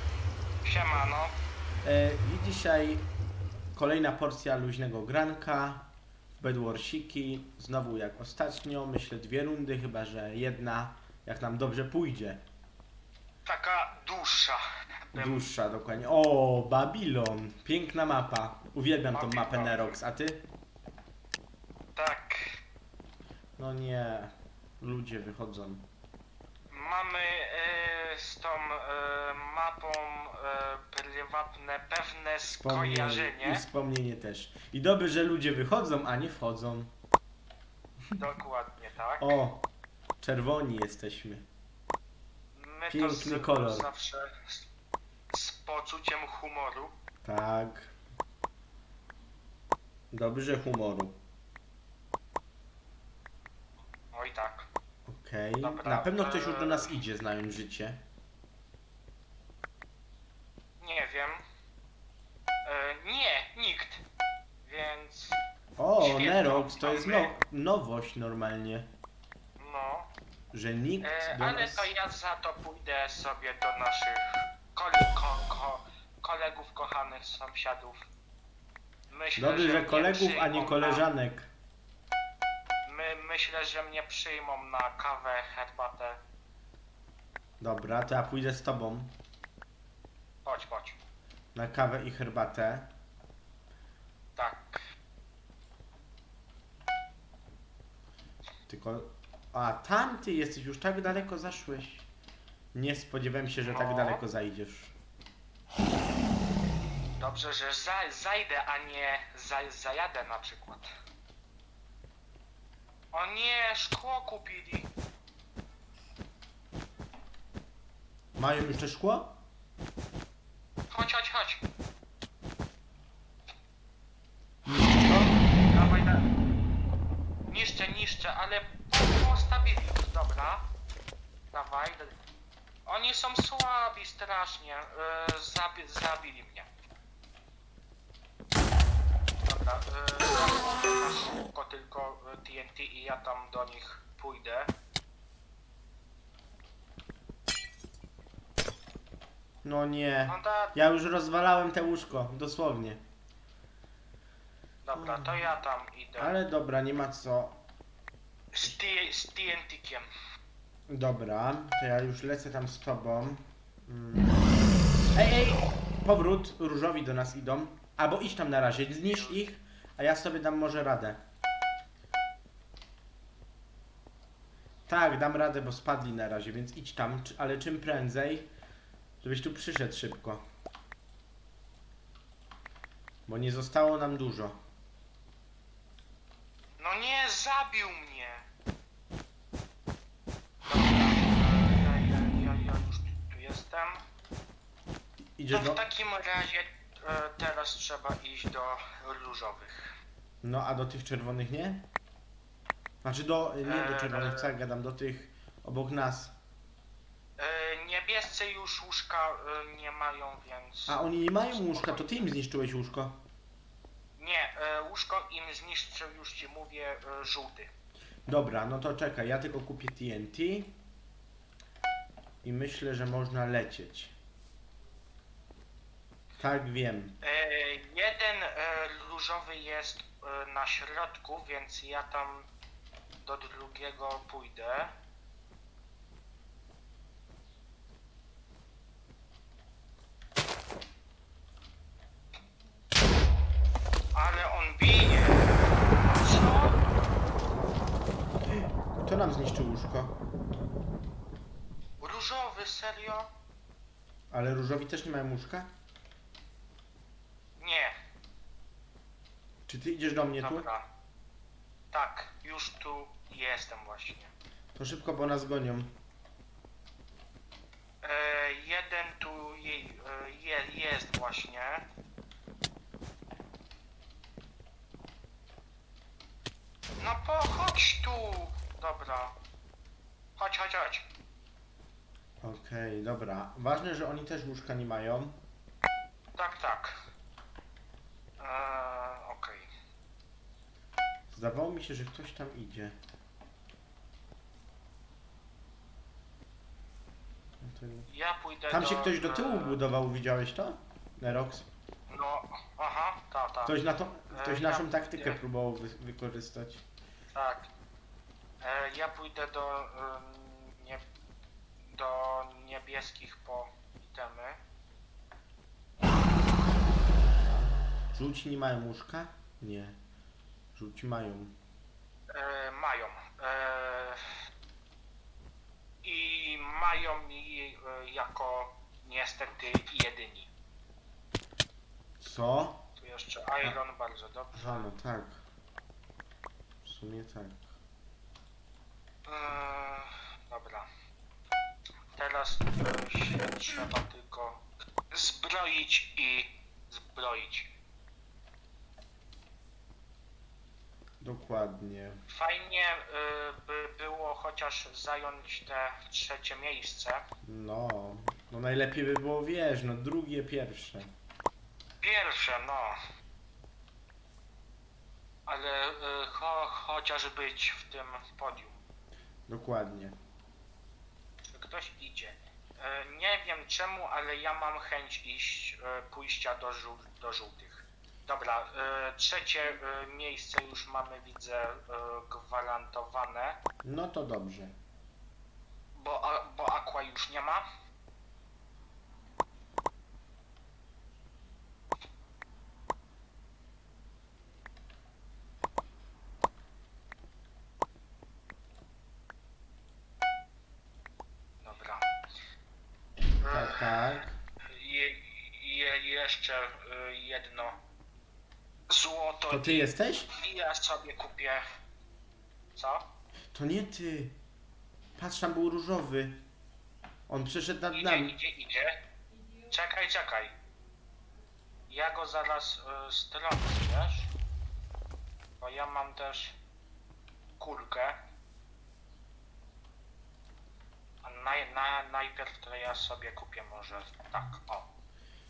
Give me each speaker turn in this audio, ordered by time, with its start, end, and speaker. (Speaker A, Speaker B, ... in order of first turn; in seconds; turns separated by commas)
Speaker A: 0.6-1.4, Speaker B: 1.8-3.1, Speaker B: 3.8-5.9, Speaker B: 6.4-12.4, Speaker A: 13.5-14.6, Speaker A: 15.1-15.5, Speaker B: 15.2-20.5, Speaker A: 19.1-20.0, Speaker A: 22.0-22.6, Speaker B: 23.6-25.9, Speaker A: 26.7-33.6, Speaker B: 32.5-36.9, Speaker A: 38.1-39.4, Speaker B: 39.2-39.6, Speaker B: 40.2-41.5, Speaker A: 42.5-44.6, Speaker B: 42.9-43.9, Speaker A: 45.3-46.9, Speaker B: 47.2-48.0, Speaker B: 50.1-51.2, Speaker A: 54.1-54.7, Speaker B: 55.1-58.0, Speaker A: 55.6-57.0, Speaker A: 60.8-61.4, Speaker A: 62.6-64.0, Speaker A: 64.7-65.4, Speaker B: 65.8-68.9, Speaker A: 66.0-67.4, Speaker A: 69.6-70.1, Speaker B: 70.5-71.9, Speaker A: 71.0-78.1, Speaker A: 79.1-81.1, Speaker B: 79.4-81.5, Speaker A: 82.8-86.2, Speaker B: 87.6-89.1, Speaker A: 90.4-91.0, Speaker B: 91.5-92.9, Speaker A: 94.4-94.8, Speaker B: 98.7-102.1, Speaker B: 102.7-105.0, Speaker A: 103.7-104.2, Speaker A: 107.2-110.9, Speaker A: 113.1-114.9, Speaker B: 118.4-119.4, Speaker A: 120.9-121.6, Speaker B: 124.7-125.4, Speaker A: 125.7-126.3, Speaker A: 127.5-130.7, Speaker A: 131.5-132.2, Speaker A: 132.9-136.7, Speaker A: 139.5-144.7, Speaker B: 149.6-153.0, Speaker A: 150.3-150.8, Speaker A: 154.8-156.4, Speaker B: 154.9-155.5, Speaker B: 156.2-157.6, Speaker A: 158.5-160.0, Speaker B: 160.9-164.4, Speaker B: 165.1-171.2, Speaker A: 169.0-169.4, Speaker B: 174.9-178.5, Speaker B: 179.2-180.4, Speaker B: 183.3-184.6, Speaker A: 186.8-188.4, Speaker A: 190.7-194.0, Speaker B: 195.4-195.8, Speaker A: 195.5-199.9, Speaker B: 200.4-201.9, Speaker B: 203.0-206.3, Speaker A: 203.6-204.5, Speaker A: 207.4-212.3, Speaker B: 210.9-213.2, Speaker A: 214.2-217.7, Speaker B: 218.3-220.8, Speaker B: 222.4-224.2, Speaker B: 226.4-227.2, Speaker A: 227.2-232.5, Speaker A: 233.2-234.9, Speaker A: 244.2-245.7, Speaker A: 246.2-246.8, Speaker B: 248.5-250.2, Speaker A: 252.0-253.3, Speaker B: 254.3-255.7, Speaker A: 257.6-257.9, Speaker B: 259.7-260.7, Speaker A: 260.4-260.9, Speaker A: 261.9-264.3, Speaker B: 264.8-265.9, Speaker A: 268.0-271.9, Speaker A: 277.0-279.3, Speaker A: 280.4-281.1, Speaker B: 282.4-285.4, Speaker A: 286.4-286.9, Speaker A: 288.4-289.7, Speaker B: 291.3-292.9, Speaker B: 297.6-298.1, Speaker A: 298.1-299.8, Speaker B: 298.7-301.7, Speaker A: 302.1-303.8, Speaker B: 303.6-306.9, Speaker A: 304.3-305.4, Speaker A: 307.3-307.7, Speaker A: 308.6-311.0, Speaker A: 311.9-314.6, Speaker B: 317.3-320.0, Speaker B: 320.8-321.6, Speaker A: 322.3-324.2, Speaker A: 326.0-330.5, Speaker B: 332.2-332.8, Speaker A: 333.0-334.9, Speaker B: 334.6-335.4, Speaker B: 336.8-337.7, Speaker A: 339.3-340.9, Speaker A: 342.1-347.7, Speaker B: 351.2-352.2, Speaker A: 352.3-357.2, Speaker B: 357.4-361.1, Speaker A: 362.0-363.0, Speaker A: 365.5-368.8, Speaker B: 369.5-370.1, Speaker A: 371.5-383.6, Speaker B: 383.8-384.8, Speaker A: 385.9-387.6, Speaker A: 401.6-402.1, Speaker A: 403.4-404.0, Speaker B: 403.5-404.4, Speaker A: 404.7-407.8, Speaker A: 408.9-411.6, Speaker B: 409.5-410.3, Speaker A: 412.8-413.1, Speaker B: 413.5-414.4, Speaker B: 415.2-416.4, Speaker B: 417.3-418.4, Speaker A: 417.9-418.9, Speaker A: 419.7-420.5, Speaker A: 421.9-424.3, Speaker A: 425.6-426.6, Speaker A: 427.6-428.2, Speaker A: 431.2-434.9